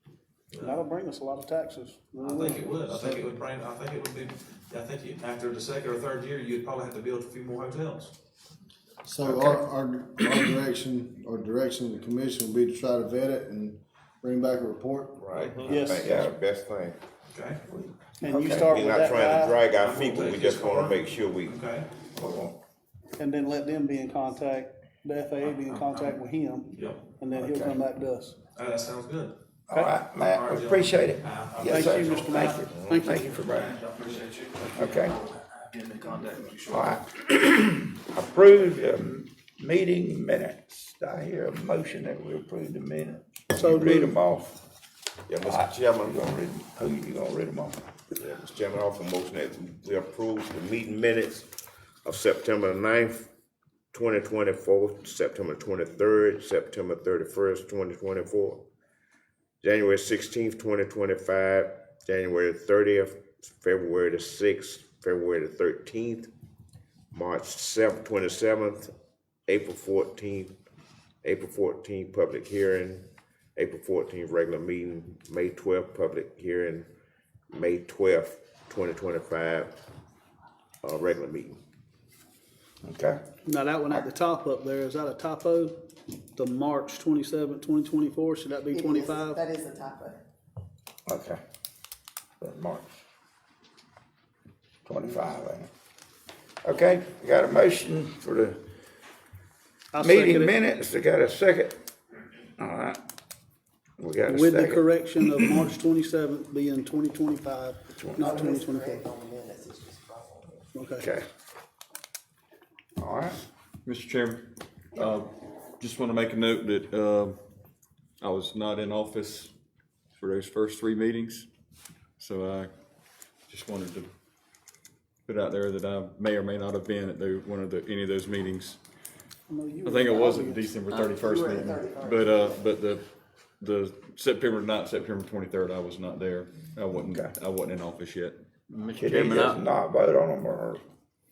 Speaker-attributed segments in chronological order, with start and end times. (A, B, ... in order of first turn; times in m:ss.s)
0:00.5-0:00.8 A
0:00.6-0:02.8 B
0:02.2-0:08.1 A
0:02.9-0:03.3 C
0:09.0-0:15.6 C
0:09.2-0:09.6 D
0:15.2-0:17.0 E
0:15.4-0:15.8 F
0:15.7-0:16.1 B
0:15.9-0:16.3 D
0:17.3-0:17.6 A
0:17.7-0:18.5 D
0:18.2-0:19.6 B
0:18.3-0:21.6 E
0:19.8-0:22.0 A
0:22.1-0:22.6 D
0:23.2-0:28.4 B
0:25.4-0:26.2 A
0:26.7-0:27.2 A
0:27.3-0:27.8 D
0:28.5-0:29.4 A
0:29.7-0:33.7 D
0:30.3-0:37.0 A
0:31.6-0:33.3 B
0:34.8-0:35.1 D
0:36.7-0:44.6 D
0:43.5-0:44.2 B
0:45.3-0:46.3 E
0:45.4-0:47.8 D
0:48.2-0:51.5 E
0:52.0-0:53.3 E
0:53.9-0:58.6 E
0:59.6-1:06.3 E
1:07.1-1:08.9 E
1:09.5-1:10.5 E
1:11.2-1:13.0 E
1:13.6-1:16.9 E
1:17.5-1:19.7 E
1:20.8-1:21.6 E
1:22.8-1:23.2 D
1:23.4-1:25.8 B
1:26.4-1:29.4 B
1:28.8-1:30.1 G
1:31.1-1:31.4 D
1:32.4-1:32.9 D
1:34.8-1:35.7 D
1:36.6-1:38.6 D
1:39.9-1:40.6 B
1:40.0-1:41.9 D
1:42.6-1:43.0 D
1:44.0-1:45.6 D
1:44.3-1:49.1 B
1:48.0-1:48.4 D
1:49.2-1:50.5 G
1:50.7-1:51.1 B
1:51.0-1:51.2 D
1:53.0-1:53.4 D
1:53.8-1:57.4 F
1:58.2-1:59.5 F
2:00.2-2:01.5 F
2:02.2-2:02.7 F
2:03.5-2:04.1 F
2:05.2-2:08.8 F
2:09.5-2:10.8 B
2:09.8-2:13.0 F
2:10.9-2:12.6 G
2:13.6-2:18.8 F
2:17.0-2:17.3 D
2:18.9-2:20.8 D
2:19.1-2:19.6 E